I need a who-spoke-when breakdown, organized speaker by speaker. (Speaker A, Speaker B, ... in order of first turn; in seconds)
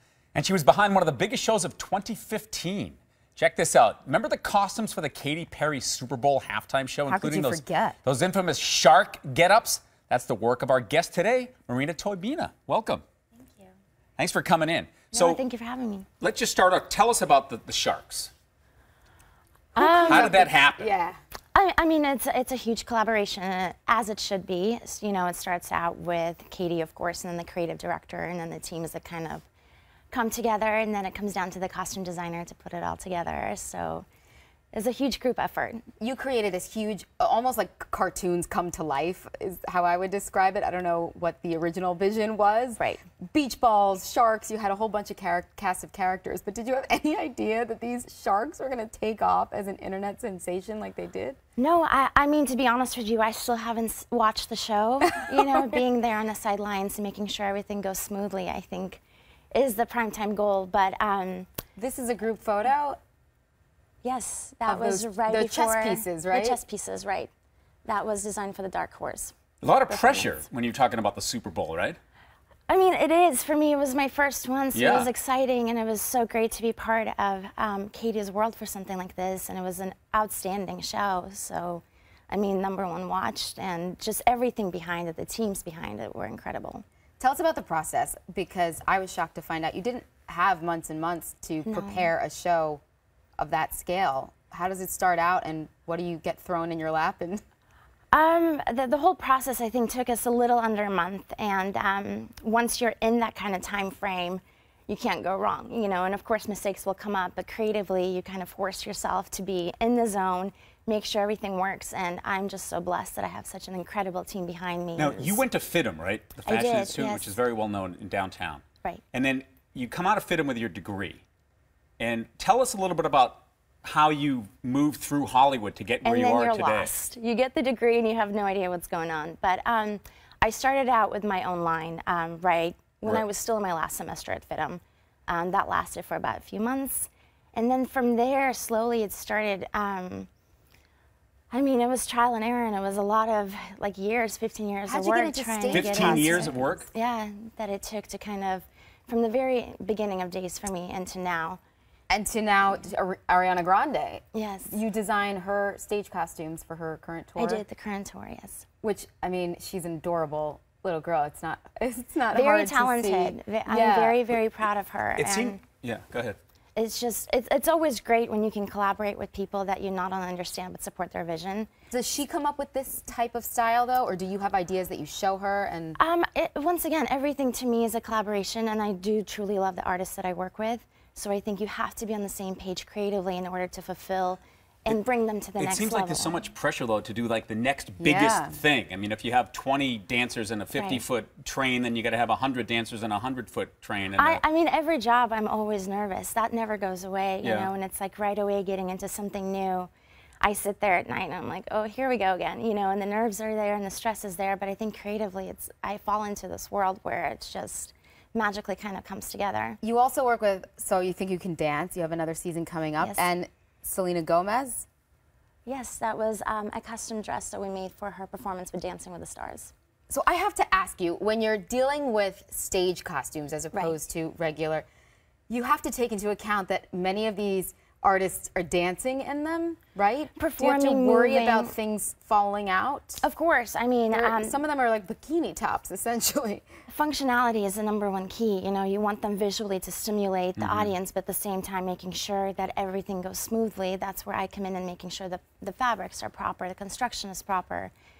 Speaker A: 0.3-13.0, 14.2-15.4, 16.2-18.3, 20.0-20.9, 69.6-72.0, 74.7-75.1, 115.0-121.2, 122.0-126.9, 145.7-146.9, 165.2-166.4, 185.6-194.4, 197.4-197.7, 240.6-240.9
Speaker B: 7.1-8.0, 19.7-21.2, 36.0-51.4, 61.8-63.0, 64.7-66.6, 87.2-92.8, 93.4-97.4, 144.9-146.7, 152.1-157.6, 158.8-164.2, 171.9-176.0, 188.0-188.6, 209.8-214.8, 220.1-224.8, 225.5-233.2, 234.1-236.6
Speaker C: 15.1-16.1, 19.8-20.4, 21.5-29.5, 30.1-34.0, 34.7-35.9, 51.6-61.5, 64.0-67.3, 67.8-69.3, 69.9-70.4, 72.7-86.8, 91.6-92.1, 98.1-115.4, 116.5-117.4, 126.0-140.3, 141.5-151.6, 154.3-154.8, 157.3-158.6, 162.3-165.6, 166.8-171.7, 176.0-186.4, 190.7-191.0, 194.2-209.8, 213.0-213.3, 215.6-219.7, 230.3-231.7, 233.2-234.6, 236.9-247.9